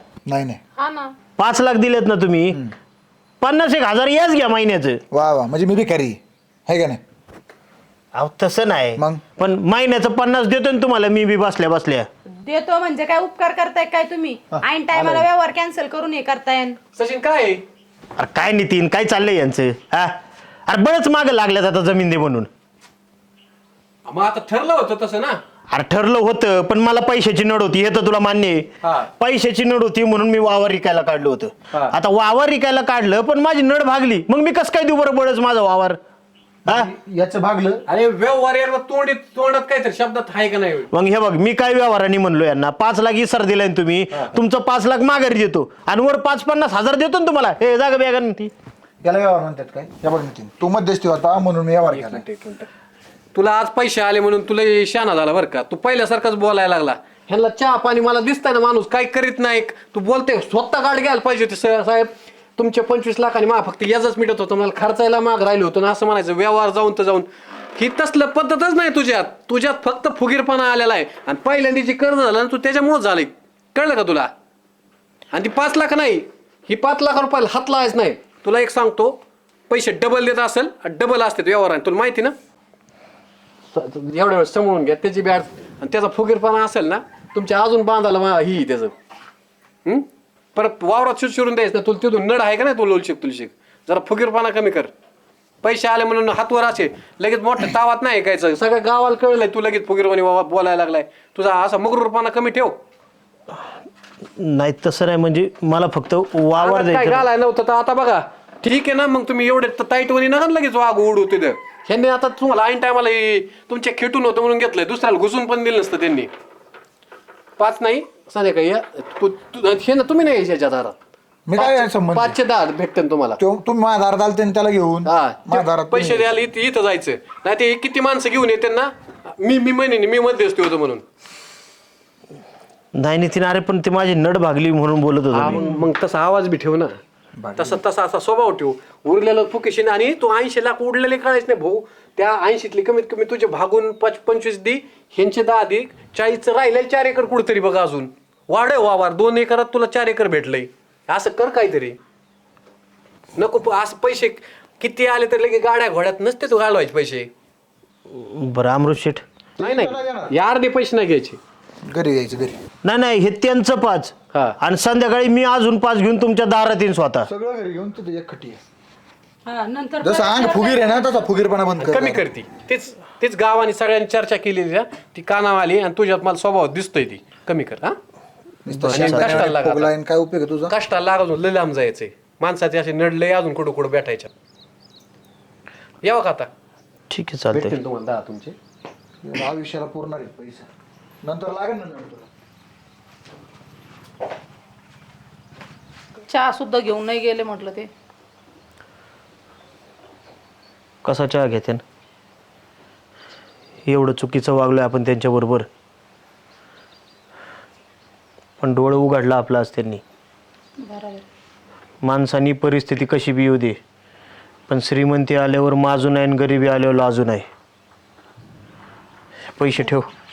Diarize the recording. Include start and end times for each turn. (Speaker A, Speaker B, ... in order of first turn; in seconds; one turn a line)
Speaker A: 0.3-0.6
Speaker B: 0.8-1.1
Speaker C: 1.4-2.6
Speaker C: 3.4-5.0
Speaker A: 5.1-7.0
Speaker C: 8.1-12.1
Speaker A: 9.0-9.2
Speaker D: 12.4-16.8
Speaker A: 14.9-15.2
Speaker E: 16.9-17.6
Speaker C: 18.2-20.1
Speaker C: 20.7-22.5
Speaker E: 24.1-25.4
Speaker C: 25.7-28.7
Speaker C: 29.2-36.0
Speaker A: 36.7-37.8
Speaker E: 37.9-40.9
Speaker C: 40.9-48.5
Speaker A: 49.0-52.2
Speaker E: 51.9-52.7
Speaker E: 53.3-74.3
Speaker E: 75.3-79.2
Speaker E: 79.7-82.3
Speaker E: 83.7-88.9
Speaker E: 89.8-94.9
Speaker E: 95.6-102.8
Speaker C: 104.4-107.2
Speaker E: 106.6-116.3
Speaker E: 117.6-121.0
Speaker A: 121.5-122.3
Speaker E: 121.5-123.4
Speaker A: 123.4-126.3
Speaker E: 125.0-131.0
Speaker C: 132.9-135.7
Speaker E: 135.3-137.0
Speaker A: 137.4-137.8
Speaker E: 137.6-152.0
Speaker E: 153.3-157.3
Speaker C: 158.1-159.2
Speaker A: 159.6-160.3
Speaker E: 159.6-161.4
Speaker A: 161.9-162.6
Speaker C: 162.8-167.3
Speaker A: 167.2-168.6
Speaker D: 169.5-171.0
Speaker A: 170.0-172.2
Speaker E: 171.8-177.9
Speaker A: 178.6-180.7
Speaker C: 178.7-179.4
Speaker E: 178.8-179.9
Speaker E: 180.7-184.3
Speaker E: 186.0-186.5
Speaker C: 187.1-187.7
Speaker E: 187.5-188.6
Speaker A: 189.2-190.7
Speaker A: 191.2-192.3
Speaker B: 196.3-197.9
Speaker C: 201.0-201.8
Speaker C: 203.8-205.7
Speaker C: 208.6-210.0
Speaker B: 210.8-211.2
Speaker C: 212.0-213.8
Speaker C: 214.7-217.5
Speaker C: 219.6-220.1